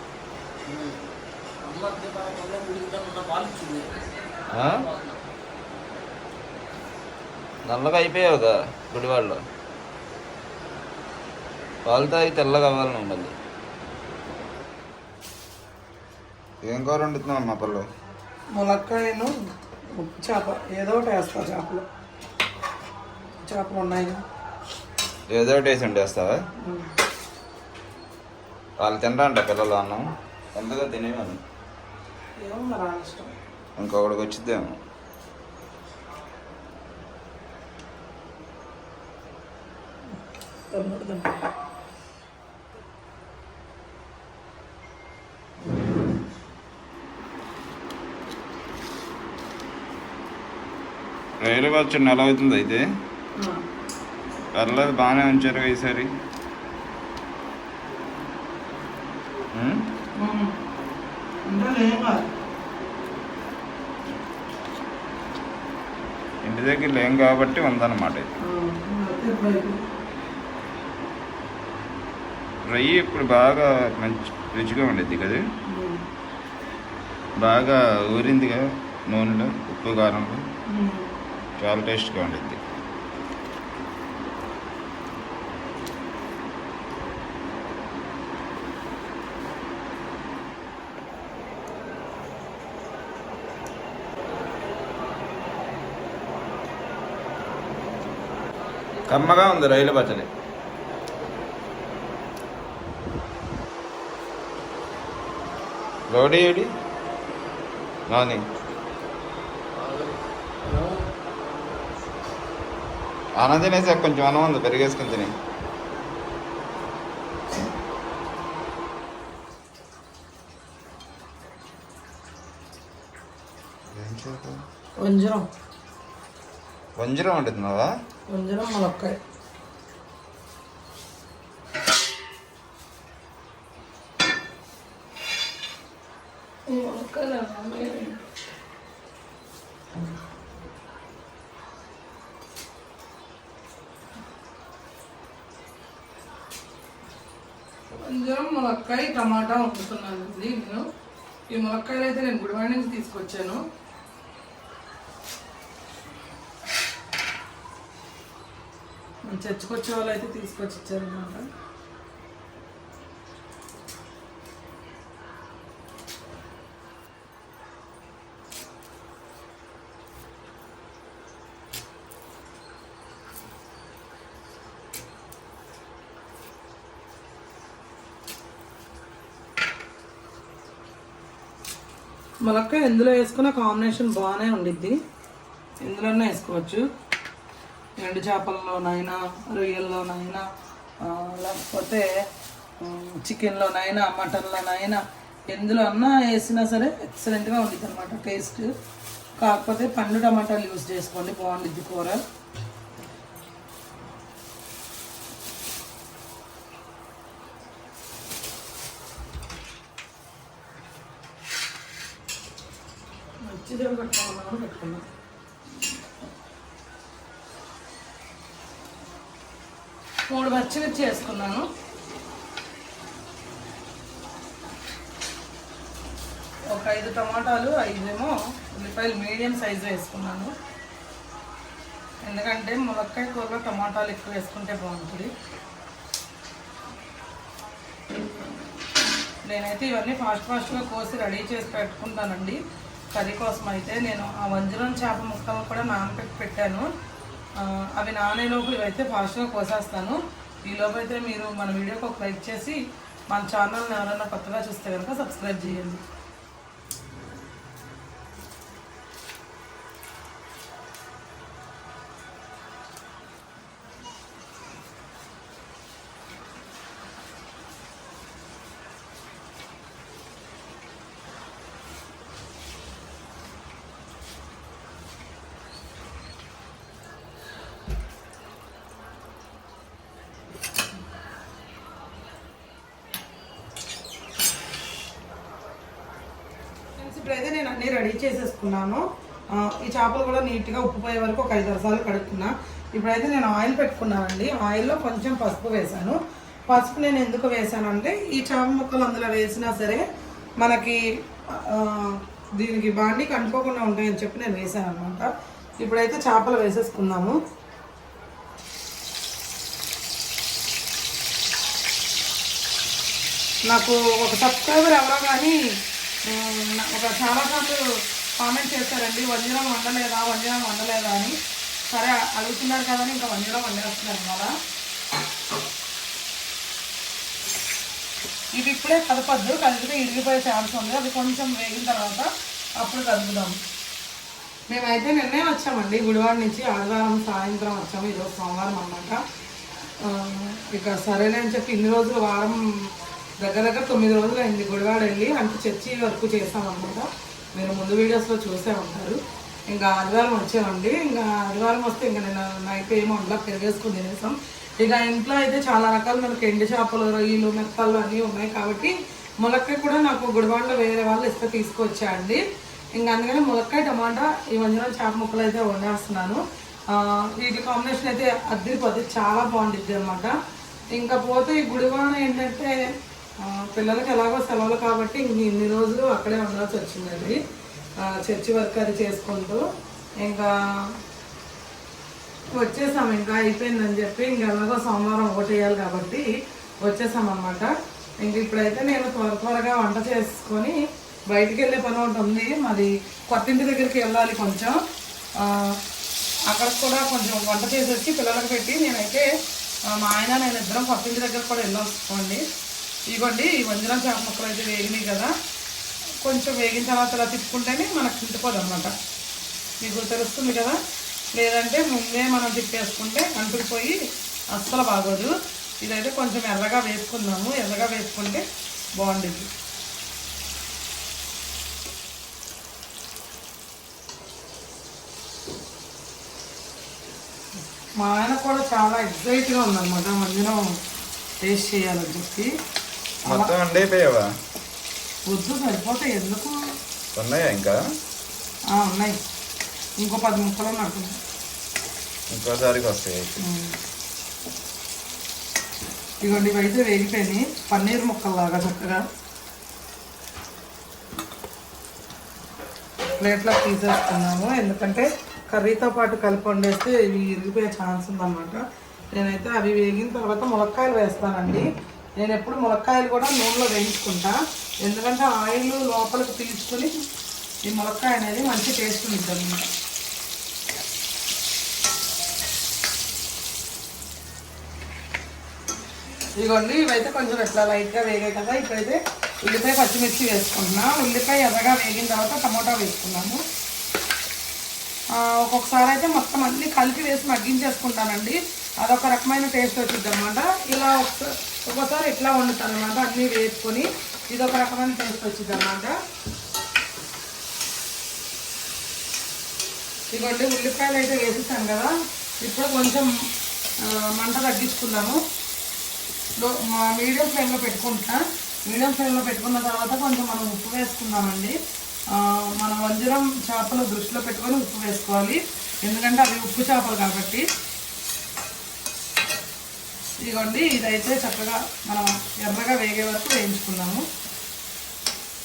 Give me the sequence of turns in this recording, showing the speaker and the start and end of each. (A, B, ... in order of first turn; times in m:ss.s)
0:00.7-0:01.0 A
0:01.6-0:04.0 A
0:04.5-0:04.8 B
0:04.7-0:05.2 A
0:07.6-0:09.4 B
0:11.9-0:13.3 B
0:16.6-0:17.9 B
0:18.6-0:19.3 C
0:19.9-0:21.8 C
0:23.4-0:24.2 C
0:25.3-0:26.4 B
0:26.6-0:26.9 C
0:28.8-0:31.4 B
0:32.4-0:33.3 C
0:33.8-0:34.8 B
0:40.5-0:41.4 C
0:51.4-0:52.8 B
0:54.6-0:56.1 B
0:59.5-0:59.8 B
1:00.2-1:00.6 C
1:01.4-1:02.2 C
1:06.4-1:08.3 B
1:08.4-1:09.8 C
1:12.7-1:15.4 B
1:15.7-1:16.0 C
1:17.4-1:20.4 B
1:20.7-1:21.1 C
1:21.6-1:22.6 B
1:39.1-1:40.3 B
1:46.1-1:46.7 B
1:48.1-1:48.4 B
1:49.7-1:51.3 A
1:53.4-1:55.3 B
2:03.9-2:04.6 B
2:05.0-2:05.5 C
2:07.0-2:07.9 B
2:08.3-2:09.2 C
2:16.7-2:18.2 C
2:27.9-2:30.8 C
2:31.5-2:33.6 C
2:39.3-2:41.5 C
3:02.4-3:05.0 C
3:05.8-3:06.9 C
3:08.0-3:10.4 C
3:11.0-3:12.1 C
3:12.8-3:18.7 C
3:19.4-3:22.2 C
3:33.5-3:35.0 C
3:40.3-3:41.7 C
3:46.7-3:50.5 C
3:52.2-3:55.3 C
3:59.4-4:02.6 C
4:03.1-4:06.9 C
4:07.6-4:16.0 C
4:47.0-5:00.0 C
5:00.6-5:05.3 C
5:05.8-5:07.4 C
5:13.7-5:15.6 C
5:16.3-5:21.4 C
5:21.9-5:24.6 C
5:28.6-5:33.6 C
5:34.7-5:39.2 C
5:40.0-6:02.4 C
6:03.0-6:10.4 C
6:10.9-6:17.4 C
6:18.0-6:19.7 C
6:20.2-6:20.9 C
6:22.5-6:26.3 C
6:26.8-6:34.8 C
6:35.4-6:35.8 C
6:36.5-6:39.3 C
6:39.9-6:42.4 C
6:43.1-6:45.3 C
6:46.2-6:49.0 C
6:49.8-6:50.8 C
6:51.3-6:54.0 C
6:54.5-6:59.5 C
7:08.0-7:10.8 C
7:11.4-7:12.5 C
7:13.2-7:13.5 C
7:13.3-7:14.3 B
7:15.3-7:16.6 C
7:17.1-7:17.8 B
7:18.7-7:19.2 C
7:20.0-7:21.2 C
7:22.3-7:23.4 B
7:23.4-7:23.8 C
7:26.2-7:29.1 C
7:33.2-7:38.6 C
7:39.1-7:41.7 C
7:42.2-7:46.9 C
7:47.6-7:49.7 C
7:56.4-8:03.4 C
8:05.1-8:15.9 C
8:20.1-8:23.1 C
8:23.8-8:25.2 C
8:26.4-8:31.6 C
8:32.1-8:37.4 C
8:40.2-8:44.1 C